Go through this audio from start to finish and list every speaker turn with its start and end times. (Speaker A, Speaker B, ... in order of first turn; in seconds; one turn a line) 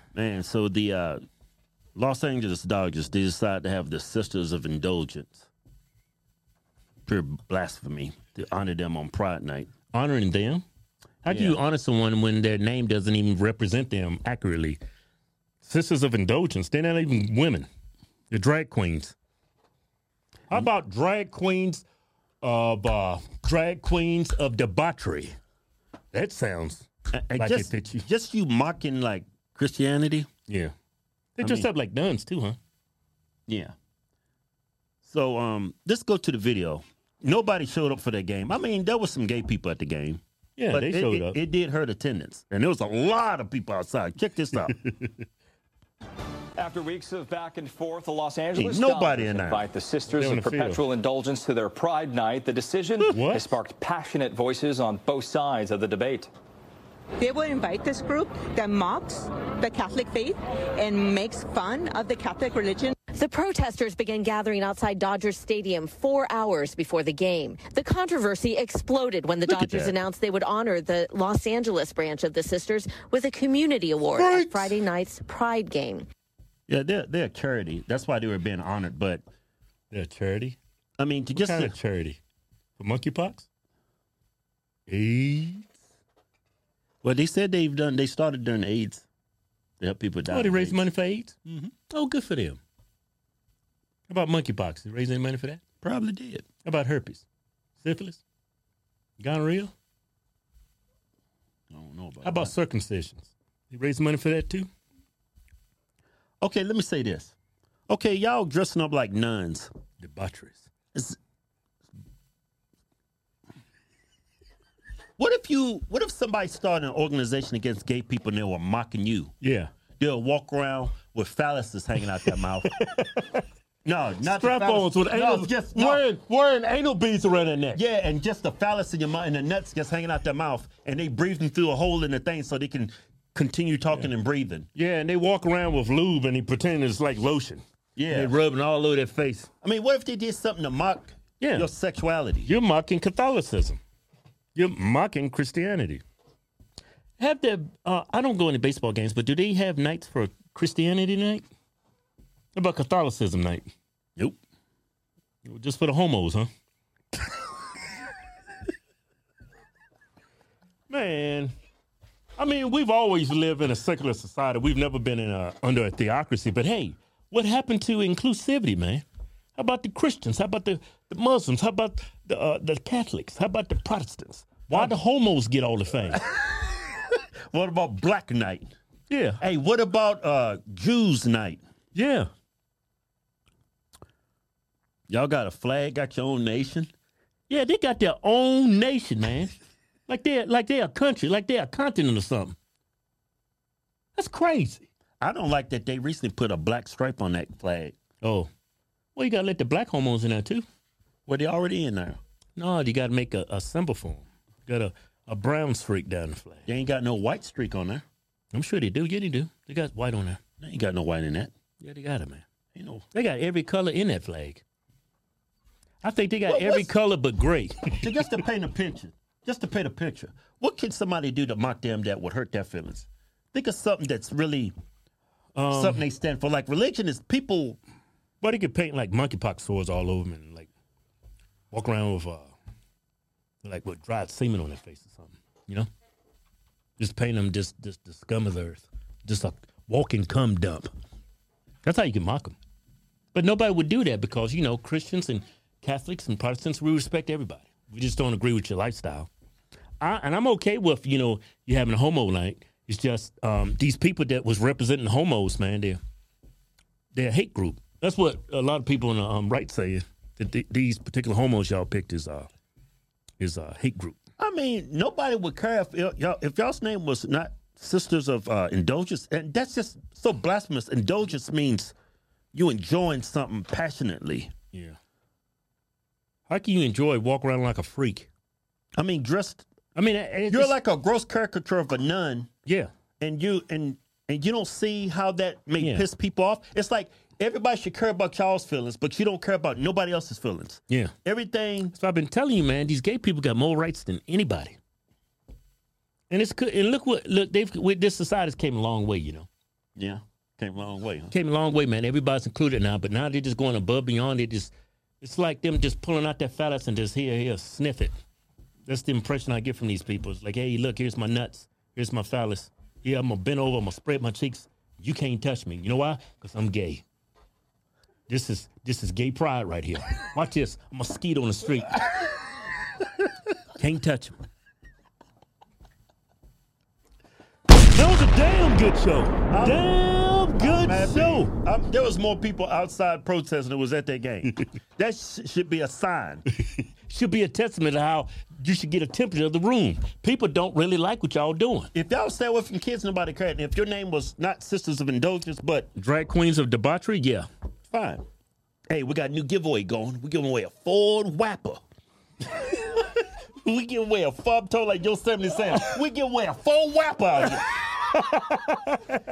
Speaker A: 0.1-1.2
Speaker A: 1.9-5.5
Speaker A: 7.0-9.8
Speaker B: 9.8-10.6
Speaker B: 11.2-14.8
Speaker A: 11.3-11.6
Speaker B: 15.6-17.7
Speaker B: 18.3-19.1
Speaker B: 20.5-21.8
Speaker B: 22.4-25.3
Speaker B: 26.1-28.1
Speaker A: 27.2-30.3
Speaker B: 30.5-30.7
Speaker B: 31.4-32.6
Speaker A: 33.5-33.7
Speaker A: 35.0-44.8
Speaker B: 40.6-41.4
Speaker B: 44.8-45.1
Speaker C: 46.6-56.3
Speaker A: 48.5-49.6
Speaker B: 50.2-50.8
Speaker B: 53.0-53.5
Speaker D: 57.2-62.9
Speaker E: 63.1-76.1
Speaker A: 69.5-70.0
Speaker A: 74.1-74.7
Speaker A: 76.7-79.2
Speaker B: 79.9-80.6
Speaker A: 81.0-81.7
Speaker B: 81.3-82.2
Speaker B: 82.8-83.5
Speaker B: 84.9-85.7
Speaker A: 87.0-89.1
Speaker A: 89.8-90.8
Speaker B: 90.3-91.4
Speaker B: 91.9-92.6
Speaker B: 94.1-95.6
Speaker A: 95.8-96.5
Speaker B: 96.6-97.2
Speaker B: 97.8-98.2
Speaker B: 99.2-99.7
Speaker A: 101.7-102.5
Speaker B: 102.2-104.7
Speaker A: 106.4-107.3
Speaker A: 107.9-109.7
Speaker B: 110.0-110.7
Speaker A: 115.2-119.3
Speaker B: 119.4-119.7
Speaker A: 120.0-122.7
Speaker B: 122.7-123.4
Speaker A: 123.8-126.0
Speaker B: 124.2-127.8
Speaker A: 127.7-134.7
Speaker B: 134.8-139.5
Speaker A: 138.0-138.3
Speaker A: 139.6-142.5
Speaker B: 141.4-141.7
Speaker B: 142.5-143.8
Speaker B: 144.6-146.0
Speaker B: 147.2-151.4
Speaker B: 152.6-153.7
Speaker B: 155.4-156.5
Speaker B: 160.9-161.5
Speaker B: 162.4-169.0
Speaker B: 169.6-176.2
Speaker A: 176.3-178.7
Speaker B: 179.1-179.4
Speaker A: 179.4-181.6
Speaker B: 181.9-182.3
Speaker A: 185.1-186.9
Speaker B: 187.5-189.5
Speaker B: 190.1-192.6
Speaker B: 194.2-194.9
Speaker A: 195.2-198.0
Speaker B: 198.2-198.5
Speaker B: 199.2-200.7
Speaker A: 201.3-202.2
Speaker B: 202.6-206.7
Speaker A: 206.7-208.0
Speaker B: 208.5-210.4
Speaker A: 210.6-211.5
Speaker B: 211.8-212.5
Speaker A: 212.7-213.1
Speaker B: 213.1-214.6
Speaker B: 216.0-218.3
Speaker A: 216.5-216.9
Speaker A: 218.0-224.7
Speaker B: 225.6-226.0
Speaker A: 225.7-227.8
Speaker B: 228.4-230.7
Speaker B: 231.7-232.5
Speaker B: 233.6-235.9
Speaker B: 237.0-240.9
Speaker B: 241.8-242.6
Speaker B: 243.3-249.3
Speaker B: 250.0-256.0
Speaker B: 257.1-262.5
Speaker B: 263.4-264.2
Speaker A: 264.4-271.9
Speaker A: 272.5-274.6
Speaker B: 276.5-278.3
Speaker A: 279.0-279.6
Speaker B: 279.9-280.8
Speaker A: 280.5-282.5
Speaker A: 283.2-291.9
Speaker B: 285.8-286.1
Speaker B: 291.9-294.8
Speaker B: 296.3-299.5
Speaker A: 300.0-301.3
Speaker B: 301.3-308.1
Speaker B: 308.9-317.0
Speaker B: 318.3-322.0
Speaker B: 323.8-324.3
Speaker B: 327.9-331.5
Speaker A: 329.5-329.8
Speaker A: 330.6-336.4
Speaker B: 337.1-341.9
Speaker A: 341.9-345.9
Speaker B: 345.9-347.5
Speaker A: 347.9-348.2
Speaker A: 348.9-351.8
Speaker A: 353.6-357.7
Speaker B: 358.4-358.9